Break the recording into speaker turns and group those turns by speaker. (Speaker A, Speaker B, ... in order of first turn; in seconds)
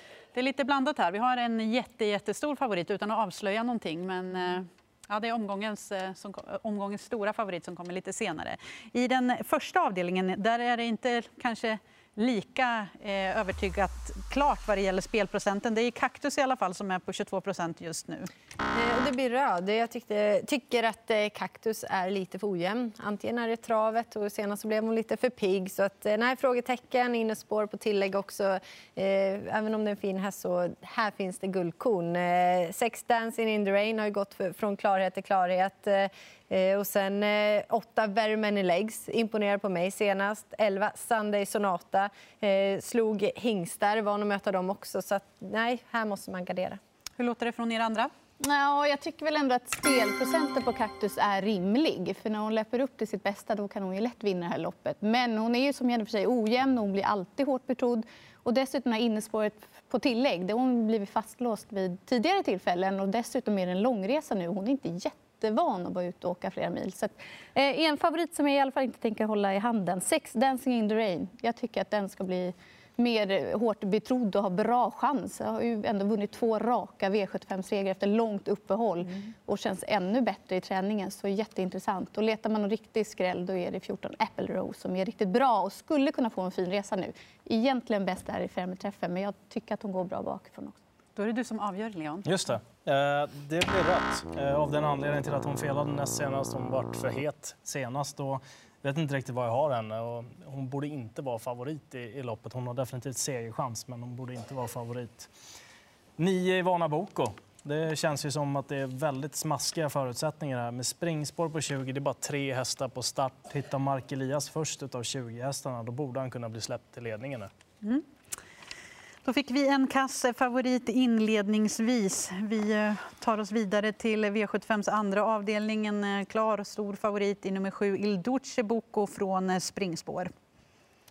Speaker A: 0.3-18.3, 47.2-48.1, 91.2-92.3, 119.2-130.3
Speaker B: 18.7-46.8
Speaker C: 48.4-90.8
Speaker D: 92.2-105.3, 106.2-117.5